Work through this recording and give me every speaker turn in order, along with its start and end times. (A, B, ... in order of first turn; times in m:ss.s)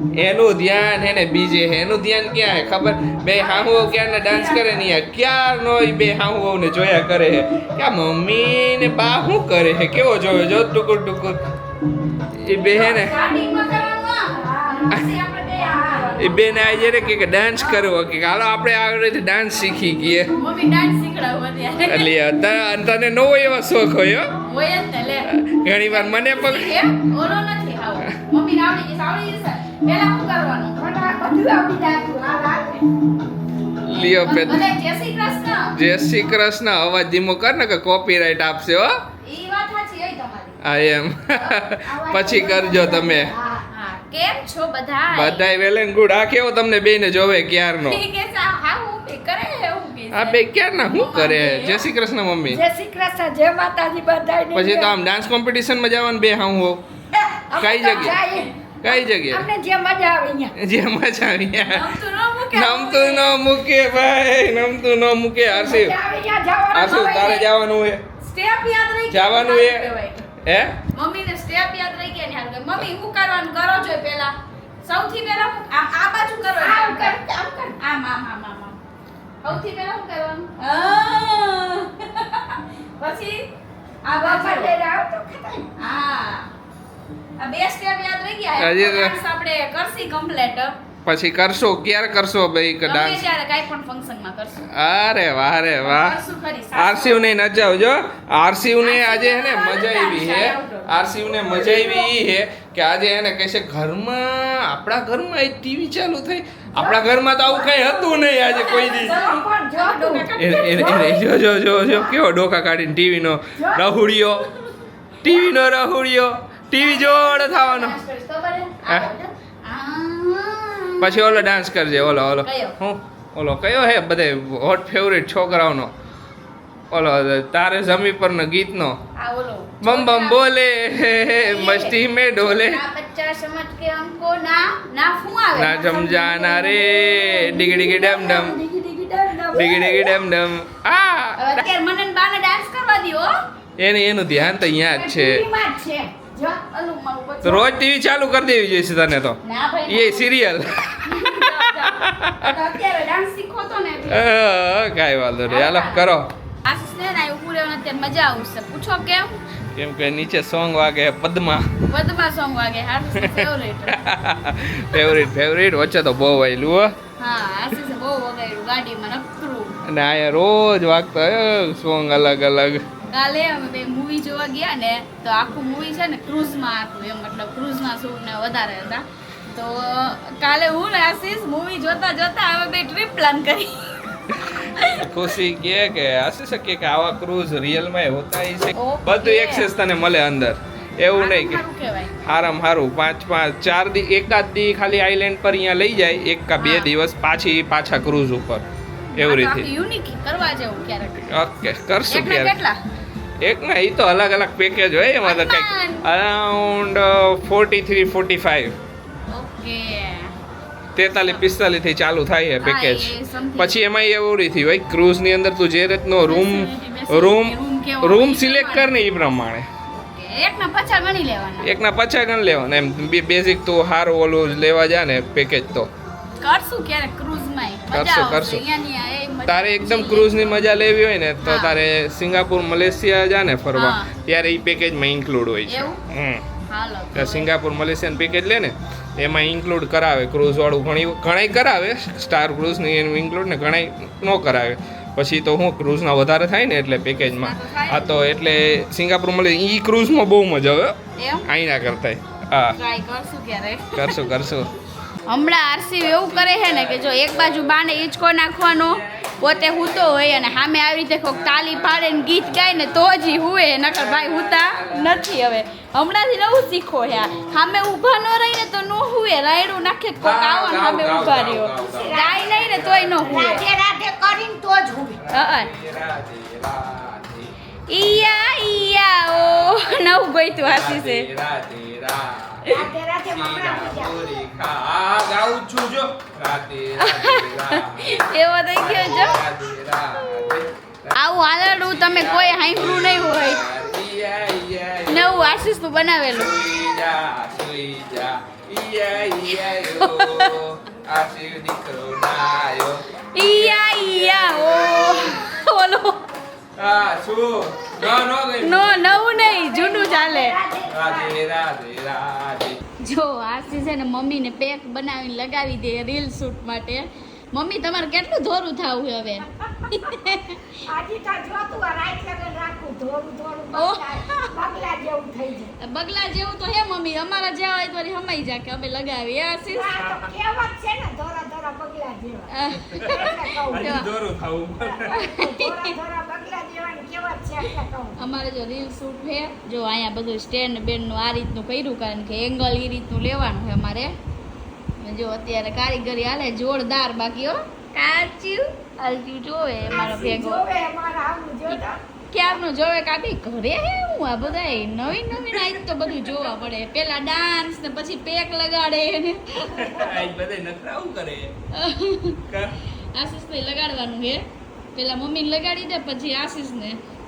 0:00.2-0:11.4 A
0:03.3-0:05.0 B
0:12.3-0:13.2 A
0:12.5-0:17.8 B
0:16.2-0:20.3 A
0:20.3-0:22.1 B
0:21.8-0:24.3 A
0:24.4-0:30.8 B
0:25.3-0:26.8 A
0:30.8-0:32.9 C
0:33.8-0:34.7 A
0:34.0-0:35.8 B
0:35.7-0:39.0 A
0:39.2-0:40.6 B
0:40.6-0:43.3 A
0:41.8-0:43.6 C
0:43.7-0:45.4 B
0:45.1-0:48.0 A
0:47.8-0:51.9 B
0:50.1-0:52.6 A
0:52.5-0:55.0 C
0:54.5-0:56.8 A
0:57.3-1:00.5 C
0:57.6-0:58.2 A
0:57.8-0:58.5 B
0:58.8-0:59.5 A
1:00.6-1:01.9 A
1:01.7-1:03.2 B
1:02.5-1:06.0 A
1:05.5-1:07.5 C
1:06.7-1:08.0 A
1:08.2-1:10.2 B
1:09.1-1:10.8 A
1:10.9-1:17.2 B
1:16.6-1:17.8 C
1:17.8-1:18.8 B
1:19.4-1:23.5 B
1:24.0-1:24.8 B
1:24.2-1:25.7 C
1:25.8-1:26.5 B
1:27.4-1:30.7 B
1:28.6-1:29.1 A
1:31.0-1:33.2 A
1:32.8-1:34.7 B
1:34.7-1:36.2 A
1:35.8-1:37.2 B
1:36.7-1:49.2 A
1:38.8-1:42.0 B
1:46.8-1:50.3 C
1:48.5-1:51.4 B
1:50.4-1:54.4 A
1:54.1-1:54.5 B
1:55.2-1:58.0 A
1:56.8-2:01.4 B
1:58.8-1:59.1 A
2:01.0-2:05.9 A
2:02.4-2:02.7 B
2:06.9-2:09.0 A
2:09.2-2:10.4 B
2:09.8-2:12.8 A
2:11.4-2:17.6 B
2:15.5-2:18.6 A
2:17.3-2:20.2 C
2:19.5-2:21.6 A
2:21.4-2:23.3 B
2:23.8-2:25.4 A
2:24.9-2:26.6 C
2:26.7-2:27.7 B
2:27.4-2:32.6 A
2:29.4-2:30.3 B
2:31.0-2:34.3 B
2:34.1-2:36.3 A
2:35.5-2:36.1 B
2:36.6-2:39.4 B
2:39.7-2:41.7 A
2:41.9-2:44.0 B
2:43.2-2:46.9 A
2:47.2-2:49.7 B
2:49.9-2:52.8 A
2:53.1-3:04.0 B
3:04.3-3:11.6 A
3:04.5-3:05.3 B
3:08.8-3:09.7 B
3:11.1-3:12.1 B
3:12.2-3:18.6 A
3:16.6-3:16.9 B
3:19.1-3:21.3 B
3:19.2-3:19.7 A
3:21.2-3:22.5 A
3:22.1-3:22.8 B
3:23.4-3:28.7 A
3:25.2-3:26.0 B
3:29.3-3:30.3 B
3:31.0-3:39.7 A
3:31.1-3:31.5 B
3:32.6-3:33.8 B
3:36.3-3:38.9 B
3:40.0-3:41.8 B
3:41.6-3:45.9 A
3:46.4-3:50.7 B
3:47.9-3:48.6 A
3:49.5-3:56.4 A
3:51.4-3:51.8 B
3:53.7-3:54.1 B
3:55.7-3:56.0 B
3:56.7-3:57.5 B
3:57.1-4:12.8 A
4:07.2-4:08.1 B
4:11.2-4:11.5 B
4:12.8-4:14.2 B
4:13.9-4:14.7 A
4:15.3-4:33.7 B
4:16.0-4:18.0 A
4:18.8-4:20.6 A
4:21.2-4:25.2 A
4:30.2-4:33.6 A
4:31.8-4:35.2 C
4:35.2-4:40.0 A
4:35.3-4:35.7 B
4:37.9-4:41.2 B
4:40.6-4:42.7 A
4:42.7-4:44.2 C
4:43.3-4:51.2 A
4:47.0-4:49.4 B
4:50.2-4:50.6 B
4:51.1-4:53.6 B
4:51.7-4:55.6 A
4:55.1-4:56.5 B
4:56.3-5:05.2 A
5:00.0-5:00.6 B
5:03.3-5:06.2 B
5:06.8-5:09.2 A
5:08.0-5:10.6 B
5:09.4-5:11.4 C
5:10.9-5:12.8 A
5:13.0-5:20.8 B
5:19.7-5:20.0 C
5:20.8-5:25.7 C
5:23.7-5:24.6 B
5:25.8-5:30.0 B
5:29.7-5:34.1 C
5:30.0-5:30.3 A
5:32.5-5:34.1 B
5:32.9-5:35.2 A
5:34.8-5:38.2 C
5:35.1-5:35.9 B
5:38.2-5:44.1 B
5:45.0-5:50.7 B
5:49.9-5:52.0 C
5:52.3-6:00.1 B
5:55.2-5:56.3 A
5:59.6-6:01.5 A
6:01.7-6:02.4 B
6:02.5-6:02.8 A
6:03.1-6:04.4 B
6:04.9-6:07.0 B